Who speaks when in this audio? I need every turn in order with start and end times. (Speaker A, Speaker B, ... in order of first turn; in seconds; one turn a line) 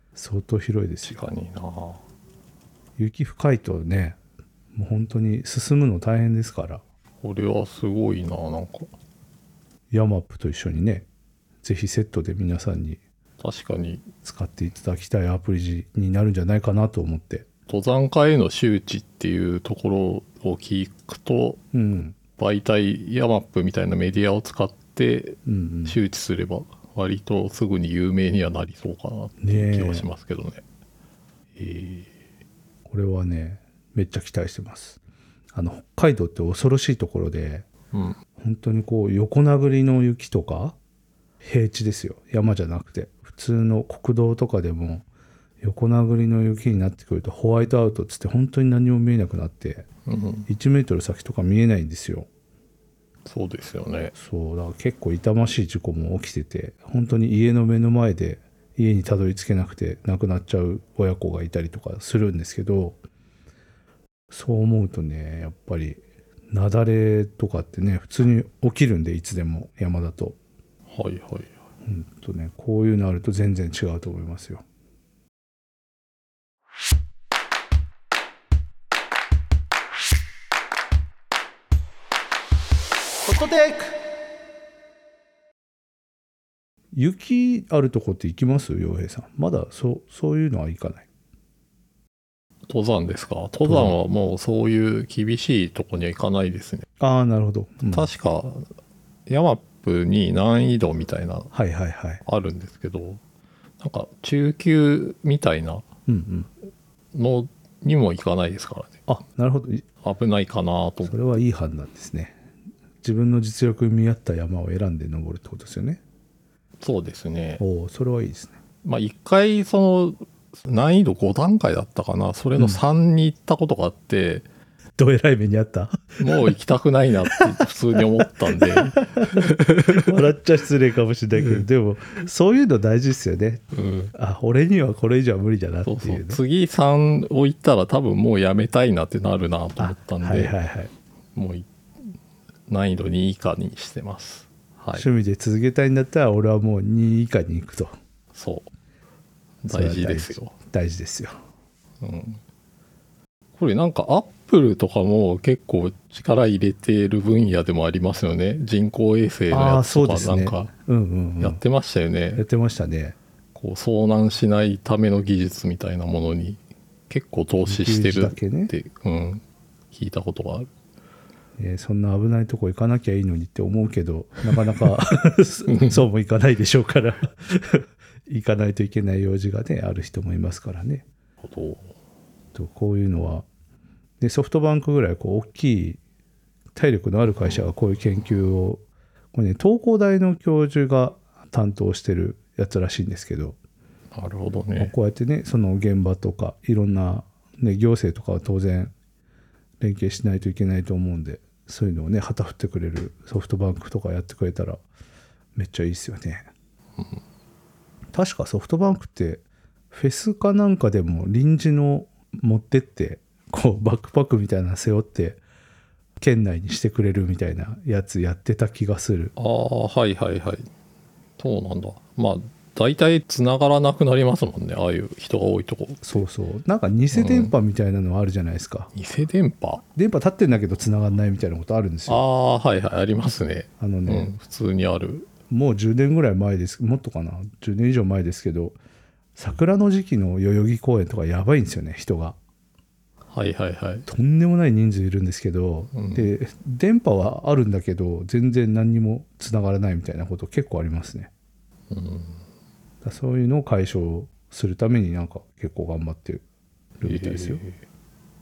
Speaker A: 0.1-1.2
Speaker B: 1.0-2.0
Speaker A: 3.0-4.2
Speaker A: 4.7-6.8
Speaker B: 7.2-8.9
Speaker A: 9.9-11.1
Speaker A: 11.6-13.0
Speaker B: 13.4-14.1
Speaker A: 14.2-17.5
Speaker B: 17.7-21.6
Speaker A: 21.7-22.2
Speaker B: 22.4-30.6
Speaker A: 25.5-26.0
Speaker A: 29.4-30.1
Speaker B: 31.6-32.1
Speaker A: 32.9-35.0
Speaker A: 35.5-37.7
Speaker B: 37.9-38.2
Speaker A: 38.4-40.8
Speaker A: 41.4-45.1
Speaker A: 45.6-49.9
Speaker B: 50.1-50.5
Speaker A: 50.5-52.3
Speaker B: 53.3-54.1
Speaker A: 54.2-63.0
Speaker A: 64.3-70.4
Speaker B: 70.9-71.5
Speaker A: 71.8-74.6
Speaker A: 83.3-84.0
Speaker A: 86.9-91.1
Speaker B: 92.7-96.9
Speaker A: 93.6-94.0
Speaker A: 97.0-98.1
Speaker B: 97.9-98.7
Speaker B: 99.3-101.5
Speaker A: 101.5-102.2
Speaker B: 102.2-103.2
Speaker B: 103.8-105.8
Speaker A: 106.1-106.5
Speaker B: 107.1-109.0
Speaker A: 109.1-109.8
Speaker B: 110.0-111.2
Speaker A: 111.0-112.4
Speaker A: 113.0-116.0
Speaker B: 116.8-117.6
Speaker A: 117.6-118.5
Speaker B: 118.8-124.5
Speaker A: 125.0-126.5
Speaker B: 126.2-130.0
Speaker A: 128.6-133.6
Speaker B: 133.7-134.1
Speaker A: 134.1-136.4
Speaker B: 135.9-140.6
Speaker A: 139.8-140.9
Speaker B: 141.3-142.1
Speaker B: 142.7-145.1
Speaker A: 144.9-147.9
Speaker B: 148.3-148.7
Speaker B: 149.7-150.5
Speaker A: 149.7-151.4
Speaker B: 152.0-152.4
Speaker B: 153.6-160.7
Speaker A: 159.5-161.6
Speaker B: 161.4-162.4
Speaker A: 162.4-163.2
Speaker B: 163.6-170.7
Speaker A: 167.7-168.7
Speaker A: 171.6-181.1
Speaker B: 175.7-176.1
Speaker B: 181.4-181.9
Speaker A: 182.5-183.5
Speaker A: 184.2-186.0
Speaker A: 186.8-188.8
Speaker A: 189.3-193.6
Speaker B: 194.1-194.9
Speaker A: 194.8-198.9
Speaker A: 199.8-204.8
Speaker A: 205.6-206.4
Speaker A: 208.1-215.4
Speaker A: 216.2-219.3
Speaker B: 219.4-220.7
Speaker B: 221.4-226.2
Speaker A: 226.0-228.9
Speaker B: 227.1-227.5
Speaker B: 228.9-229.8
Speaker A: 230.0-232.2
Speaker B: 232.1-235.3
Speaker A: 233.8-234.3
Speaker A: 235.5-238.8
Speaker A: 239.4-242.4
Speaker B: 243.3-244.1
Speaker A: 244.1-251.3
Speaker B: 245.9-246.3
Speaker B: 251.9-252.4
Speaker A: 253.0-256.4
Speaker A: 257.0-257.6
Speaker B: 257.0-257.8